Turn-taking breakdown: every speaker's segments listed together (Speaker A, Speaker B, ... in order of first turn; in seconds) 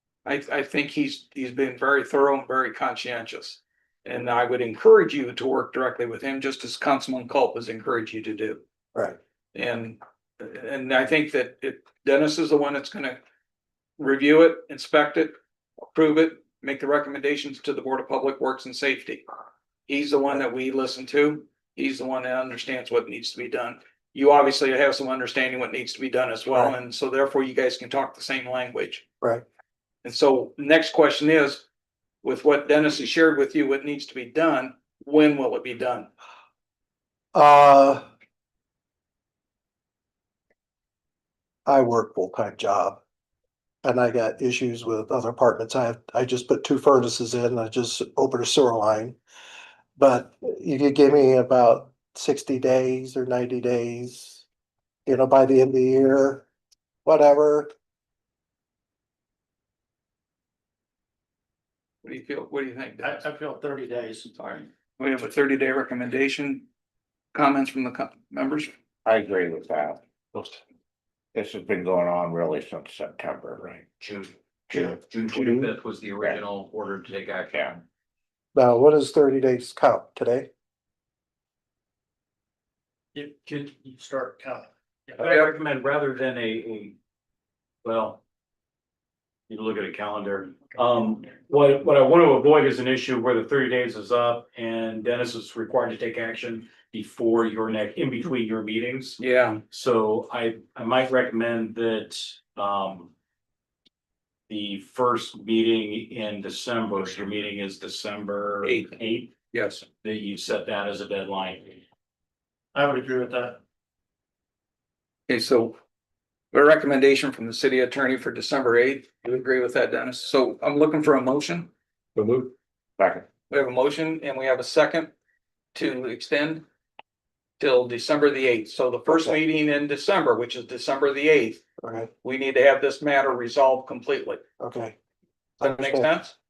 Speaker A: 0.2-8.6, 9.5-13.2, 14.0-15.3, 15.9-19.2, 19.9-29.0, 30.0-31.6, 32.2-36.1, 62.0-63.2, 64.4-66.7, 67.3-68.7, 99.2-99.6, 108.6-108.9, 109.5-109.8, 115.3-115.8, 116.5-121.7, 123.5-125.1, 125.7-126.6, 127.6-131.6, 132.2-134.4, 135.6-136.3
Speaker B: 37.3-38.0, 41.7-43.0, 43.8-49.2, 50.0-54.5, 55.1-56.5, 57.0-57.7, 75.3-75.7, 78.5-80.5, 129.1-129.4, 131.8-132.1, 134.6-134.9, 135.6-136.1
Speaker C: 63.0-64.3, 83.2-85.2, 112.7-113.6
Speaker D: 69.1-70.6, 71.3-73.8, 74.7-75.0, 77.5-77.8, 122.2-123.3
Speaker E: 74.0-77.8, 85.2-87.0, 87.8-88.2, 89.5-99.2, 99.7-103.1, 104.5-109.3, 110.0-111.8